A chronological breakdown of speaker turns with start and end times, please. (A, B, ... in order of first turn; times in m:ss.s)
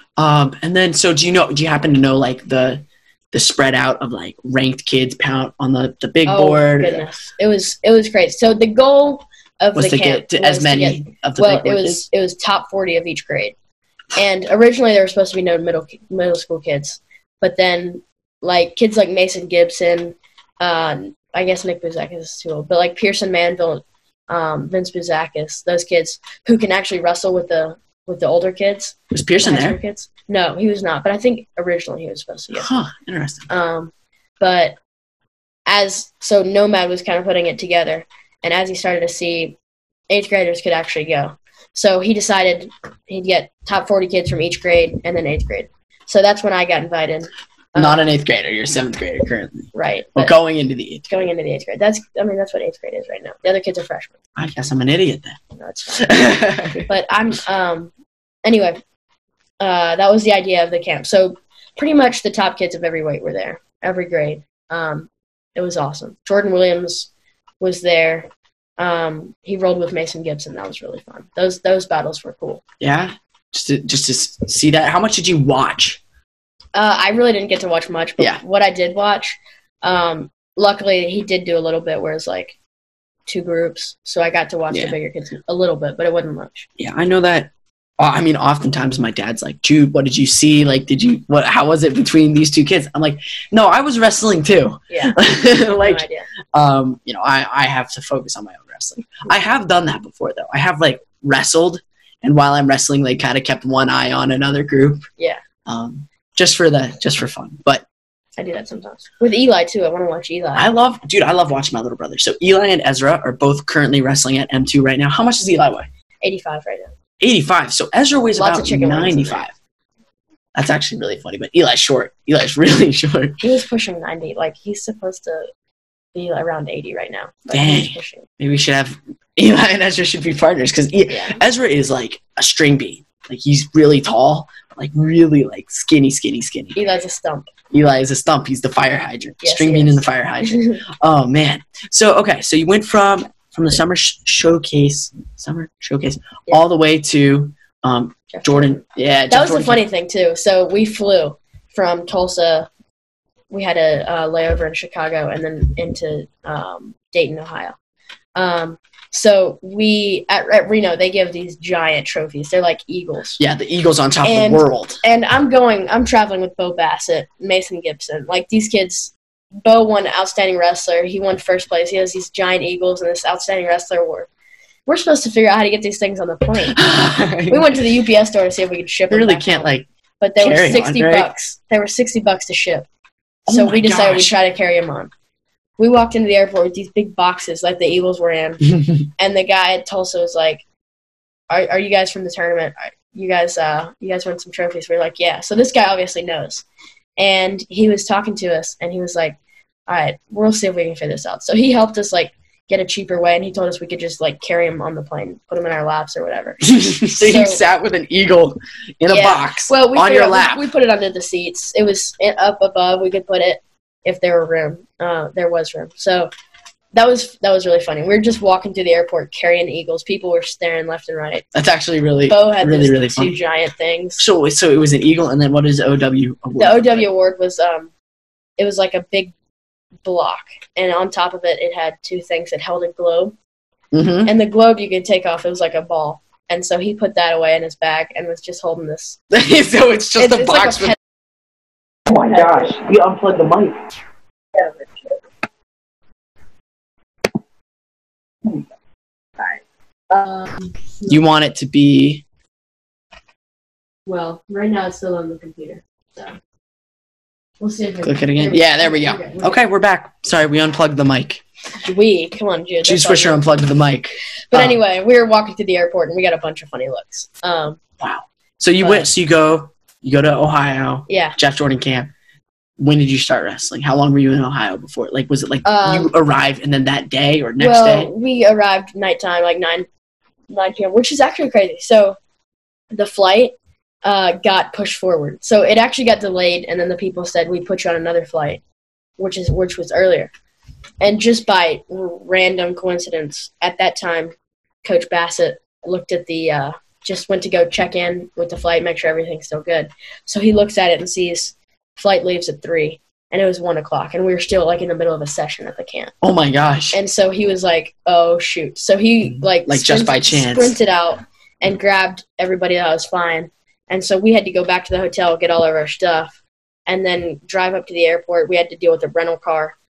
0:00.2-0:07.0 A
0:06.2-0:13.5 B
0:09.7-0:12.0 A
0:14.1-0:32.7 B
0:29.1-0:29.8 A
0:32.5-0:33.5 A
0:33.5-0:34.8 B
0:35.7-0:39.6 B
0:40.1-0:48.0 B
0:47.7-0:51.1 A
0:49.7-0:50.4 B
0:51.1-0:54.2 B
0:54.4-0:55.4 A
0:55.6-0:57.9 B
0:56.0-0:56.9 A
0:58.4-0:58.8 B
0:59.6-1:07.1 B
1:07.6-1:12.6 B
1:12.8-1:16.0 A
1:16.7-1:22.6 B
1:23.3-1:26.7 B
1:24.7-1:25.0 A
1:26.8-1:45.0 A
1:34.9-1:36.3 B
1:45.6-1:47.8 A
1:48.4-1:50.7 B
1:50.6-1:55.9 A
1:56.2-1:56.9 B
1:57.2-1:59.5 A
1:58.3-1:59.4 B
2:00.5-2:03.4 A
2:03.4-2:05.4 B
2:06.1-2:08.3 B
2:07.5-2:16.8 A
2:11.1-2:11.4 B
2:16.8-2:17.5 B
2:17.7-2:29.8 A
2:19.4-2:20.8 B
2:28.3-2:32.7 B
2:33.5-2:37.8 B
2:38.4-2:43.4 B
2:43.4-2:45.0 A
2:44.2-2:54.3 B
2:54.9-2:56.8 B
2:56.6-2:57.8 A
2:57.5-2:59.7 B
2:59.1-2:59.8 A
3:00.2-3:02.9 B
3:00.4-3:01.3 A
3:03.5-3:04.4 A
3:03.5-3:05.1 B
3:05.8-3:10.6 B
3:11.5-3:16.6 B
3:17.2-3:19.4 B
3:19.9-3:27.6 B
3:26.6-3:30.6 A
3:29.1-3:36.3 B
3:36.9-3:41.4 B
3:41.5-3:43.4 A
3:42.3-3:44.2 B
3:44.2-3:47.1 A
3:46.6-3:47.9 B
3:48.6-3:49.3 B
3:50.0-3:53.3 B
3:53.9-3:54.3 A
3:54.2-3:59.2 B
3:59.3-4:01.0 A
4:00.2-4:01.0 B
4:02.1-4:03.8 A
4:04.5-4:05.1 B
4:09.4-4:11.2 B
4:11.1-4:12.2 A
4:14.0-4:16.4 B
4:17.6-4:19.6 B
4:18.0-4:21.4 A
4:21.8-4:23.5 B
4:22.8-4:24.8 A
4:24.5-4:27.8 B
4:28.0-4:32.1 A
4:28.8-4:29.1 B
4:31.1-4:31.4 B
4:32.8-4:38.1 A
4:35.6-4:36.1 B
4:37.6-4:39.9 B
4:40.5-4:42.2 B
4:42.9-4:48.6 B
4:49.2-4:50.3 B
4:51.0-5:06.1 B
5:06.2-5:07.0 A
5:06.9-5:16.3 B
5:09.3-5:10.7 A
5:16.9-5:19.7 B